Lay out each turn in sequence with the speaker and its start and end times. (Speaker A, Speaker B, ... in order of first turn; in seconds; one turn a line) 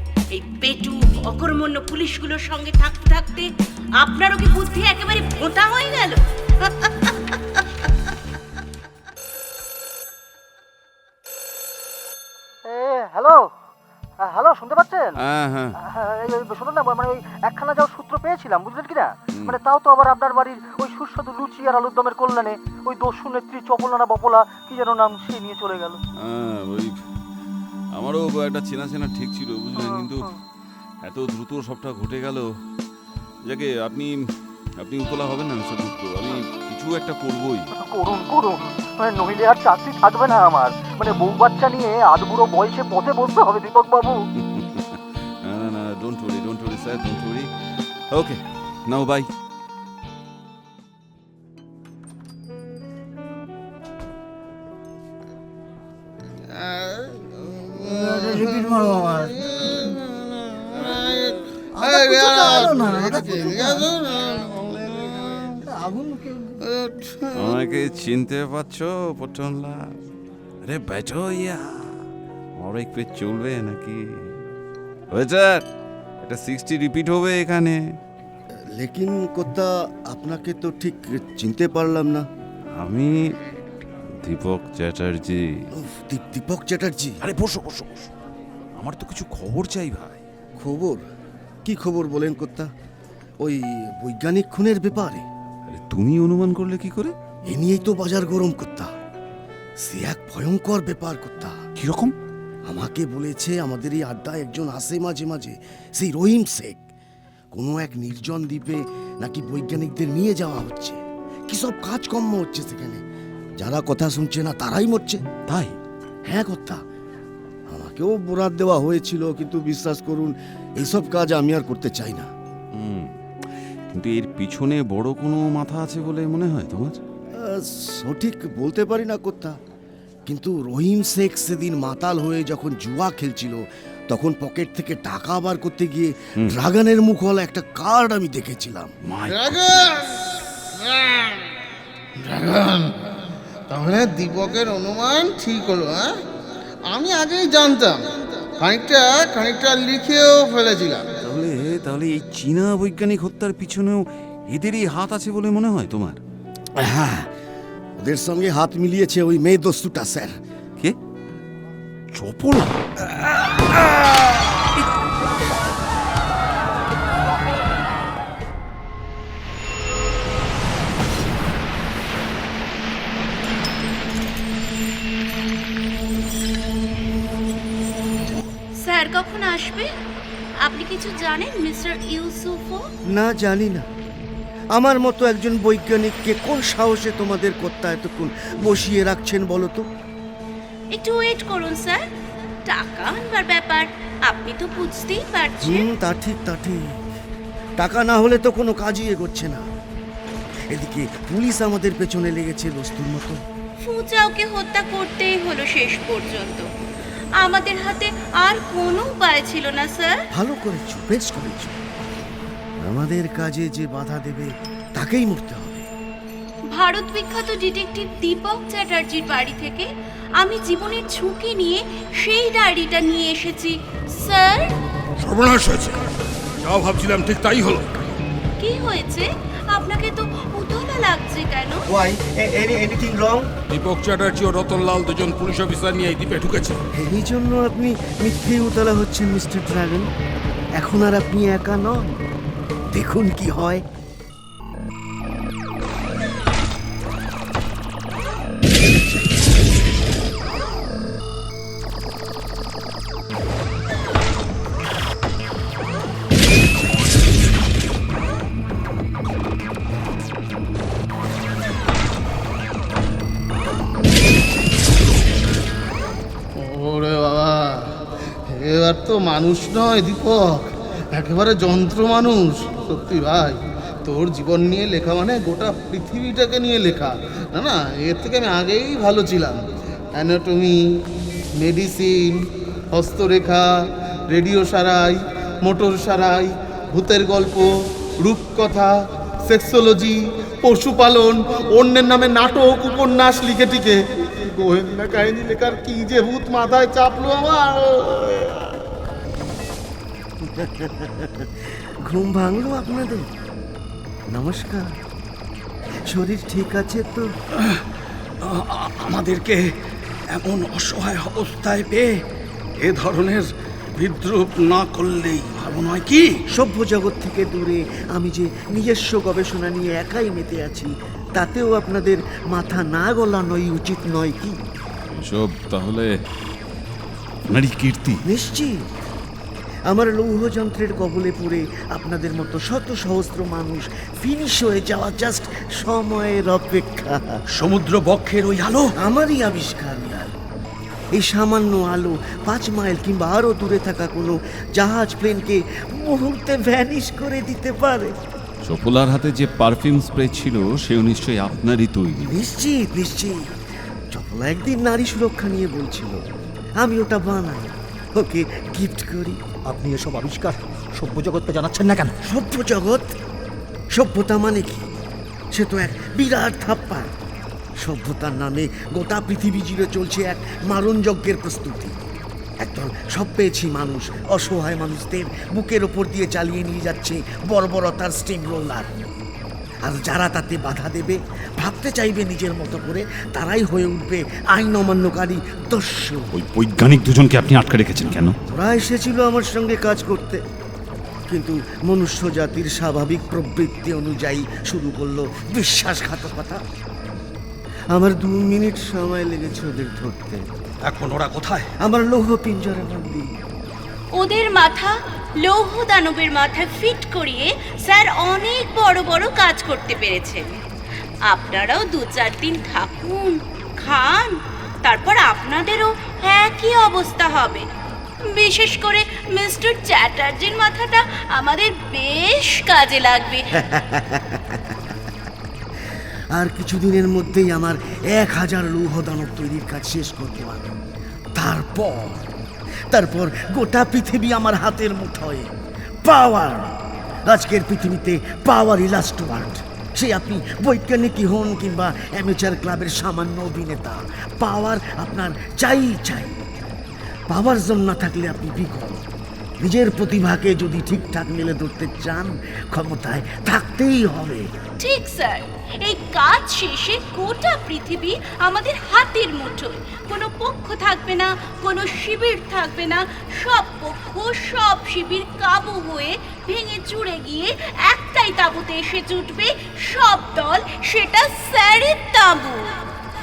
Speaker A: 0.3-3.5
Speaker A: 4.0-7.1
Speaker B: 12.7-13.5
Speaker B: 14.2-15.2
Speaker C: 15.2-15.8
Speaker B: 15.8-26.0
Speaker C: 19.3-19.6
Speaker C: 26.2-27.0
Speaker C: 28.0-30.3
Speaker B: 29.8-30.3
Speaker C: 31.0-32.5
Speaker C: 33.5-34.1
Speaker C: 34.8-37.7
Speaker B: 37.9-44.2
Speaker C: 44.4-47.5
Speaker C: 48.1-49.3
Speaker D: 56.5-65.6
Speaker B: 57.8-59.4
Speaker B: 61.8-63.9
Speaker B: 65.7-66.6
Speaker D: 66.6-67.7
Speaker C: 67.3-69.9
Speaker C: 70.7-72.0
Speaker C: 72.6-74.4
Speaker C: 75.1-75.6
Speaker C: 76.2-77.8
Speaker E: 78.8-82.3
Speaker C: 82.8-83.3
Speaker C: 84.2-85.7
Speaker E: 85.8-87.2
Speaker C: 87.2-88.1
Speaker C: 88.8-90.2
Speaker E: 90.6-91.0
Speaker E: 91.7-92.7
Speaker E: 93.4-95.2
Speaker C: 95.7-97.1
Speaker E: 97.5-98.9
Speaker E: 99.8-101.6
Speaker C: 101.8-102.2
Speaker E: 102.7-106.8
Speaker E: 107.5-113.0
Speaker E: 113.6-115.2
Speaker C: 115.4-115.8
Speaker E: 116.3-116.8
Speaker E: 117.7-122.3
Speaker C: 122.8-123.1
Speaker C: 123.9-127.0
Speaker E: 127.4-129.6
Speaker E: 130.3-138.9
Speaker C: 139.0-139.9
Speaker D: 139.3-141.5
Speaker D: 142.2-143.2
Speaker D: 143.7-146.2
Speaker D: 146.9-151.1
Speaker C: 151.2-156.2
Speaker E: 156.8-157.3
Speaker E: 158.0-160.3
Speaker C: 162.1-162.8
Speaker A: 178.8-179.9
Speaker A: 180.6-182.8
Speaker E: 183.1-183.9
Speaker E: 184.8-189.9
Speaker A: 190.9-192.0
Speaker A: 192.7-195.9
Speaker E: 195.6-196.8
Speaker E: 197.8-199.7
Speaker E: 200.7-203.4
Speaker A: 203.8-206.7
Speaker A: 207.4-210.2
Speaker E: 210.3-211.8
Speaker E: 212.8-215.9
Speaker A: 216.7-219.9
Speaker A: 220.4-224.8
Speaker F: 225.2-227.9
Speaker A: 228.6-231.9
Speaker E: 231.9-233.5
Speaker F: 233.7-236.8
Speaker E: 236.9-240.1
Speaker E: 240.8-242.1
Speaker E: 242.9-243.8
Speaker D: 266.6-268.0
Speaker D: 268.5-281.0
Speaker D: 281.6-298.8
Speaker E: 300.4-303.3
Speaker E: 304.3-305.0
Speaker E: 306.1-307.3
Speaker G: 308.4-309.6
Speaker G: 310.3-312.2
Speaker G: 312.8-316.3
Speaker E: 316.5-324.6
Speaker C: 325.1-326.1
Speaker C: 327.5-328.2
Speaker E: 328.3-328.8
Speaker E: 329.9-337.3
Speaker G: 337.6-339.0
Speaker E: 339.0-340.3
Speaker E: 341.1-348.1
Speaker C: 348.6-352.4
Speaker E: 352.3-353.5
Speaker E: 354.1-356.2
Speaker E: 356.8-359.4
Speaker B: 359.7-362.1
Speaker E: 362.2-363.1
Speaker E: 363.9-364.9
Speaker E: 365.5-367.1
Speaker E: 367.8-372.0
Speaker E: 372.6-378.9
Speaker E: 379.8-386.3
Speaker C: 386.3-388.4
Speaker E: 388.5-390.4
Speaker E: 391.3-396.6
Speaker E: 397.9-400.4
Speaker G: 400.8-401.7
Speaker E: 401.8-403.3
Speaker A: 404.1-410.5
Speaker A: 411.3-417.7
Speaker A: 418.3-423.5
Speaker E: 423.6-424.8
Speaker E: 426.3-430.8
Speaker E: 431.4-432.3
Speaker E: 432.9-435.5
Speaker E: 436.0-446.4
Speaker E: 447.3-449.1
Speaker E: 449.6-454.5
Speaker A: 454.8-472.8